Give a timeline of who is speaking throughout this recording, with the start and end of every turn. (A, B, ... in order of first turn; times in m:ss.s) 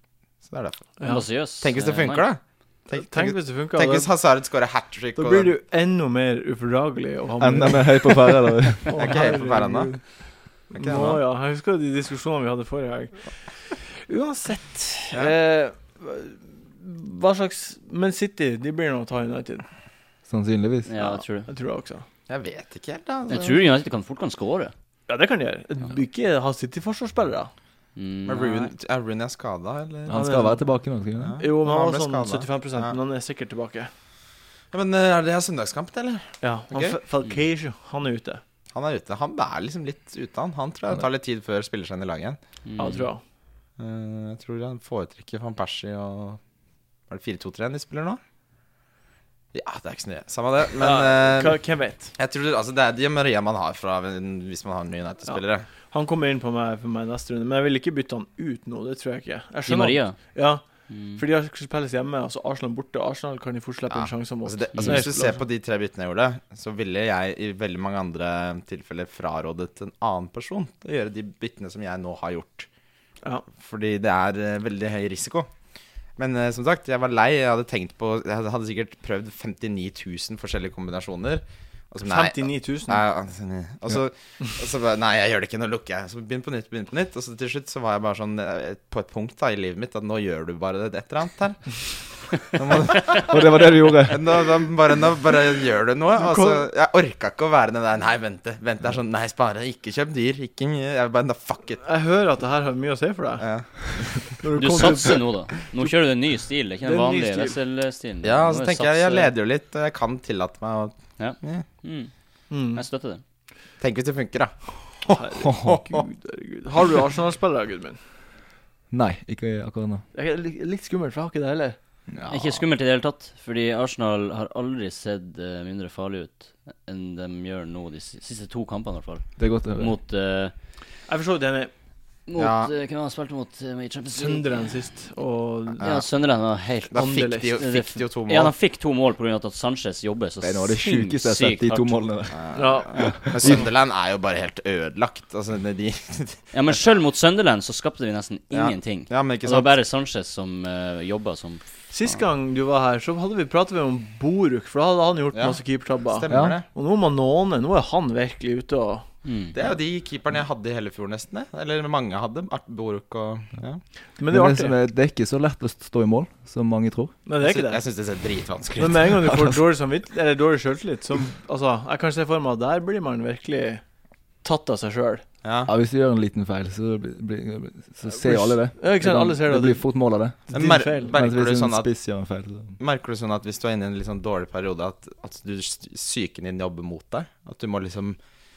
0:00.4-0:00.9 A
0:01.0-0:01.3 B
0:01.0-0:02.3 C
0:01.6-0:05.5 A
0:02.9-0:04.1 B
0:05.2-0:19.6 B
0:07.4-0:08.9 D
0:08.9-0:10.1 A
0:10.8-0:11.2 A
0:20.3-0:20.9 D
0:20.9-0:21.5 C
0:21.0-0:22.1 B
0:22.3-0:23.6 A
0:23.3-0:24.7 C
0:25.1-0:27.5 B
0:28.0-0:28.7 C
0:28.2-0:30.3 A
0:30.1-0:31.4 D
0:30.1-0:30.6 B
0:31.2-0:32.9 A
0:31.4-0:33.9 B
0:34.7-0:37.0 A
0:36.4-0:38.4 B
0:38.7-0:42.4 A
0:42.6-0:43.1 C
0:42.8-0:43.2 B
0:43.8-0:46.4 A
0:47.1-0:48.2 A
0:49.5-0:51.6 A
0:50.8-0:52.1 B
0:52.1-0:55.7 A
0:55.2-1:05.4 B
0:59.6-1:00.3 C
1:00.9-1:01.2 C
1:03.9-1:12.7 A
1:04.8-1:05.0 C
1:13.5-1:15.5 A
1:16.2-1:41.8 A
1:22.0-1:23.0 B
1:33.1-1:34.4 D
1:36.2-1:36.6 B
1:41.8-1:43.7 B
1:43.4-1:44.4 A
1:44.3-1:45.3 B
1:44.6-1:49.3 C
1:46.8-1:47.6 B
1:48.2-1:51.6 A
1:51.2-1:52.1 C
1:52.5-1:52.8 B
1:52.7-1:53.2 C
1:53.8-1:56.0 A
1:55.1-1:58.0 B
1:55.4-1:55.8 D
1:58.9-2:00.0 D
2:00.1-2:01.8 B
2:02.1-2:02.6 D
2:02.3-2:10.5 C
2:09.4-2:09.9 D
2:11.1-2:11.7 B
2:12.3-2:14.7 C
2:12.4-2:12.7 A
2:14.1-2:16.0 B
2:15.8-2:22.0 C
2:16.9-2:18.5 A
2:16.9-2:17.5 B
2:20.4-2:23.6 D
2:22.3-2:26.4 A
2:22.6-2:23.6 B
2:26.5-2:31.7 C
2:28.5-2:29.7 A
2:31.9-2:39.1 B
2:35.3-2:36.6 A
2:36.3-2:36.6 D
2:39.2-2:39.6 C
2:39.5-2:43.8 A
2:44.2-2:44.8 B
2:44.3-2:47.1 D
2:47.2-2:47.8 B
2:47.4-2:49.2 A
2:48.8-2:53.8 B
2:49.3-2:49.6 D
2:54.4-2:55.2 B
2:55.4-2:55.7 A
2:55.7-3:02.8 D
2:58.1-2:59.9 B
3:00.5-3:01.1 B
3:00.5-3:01.9 A
3:02.8-3:08.2 A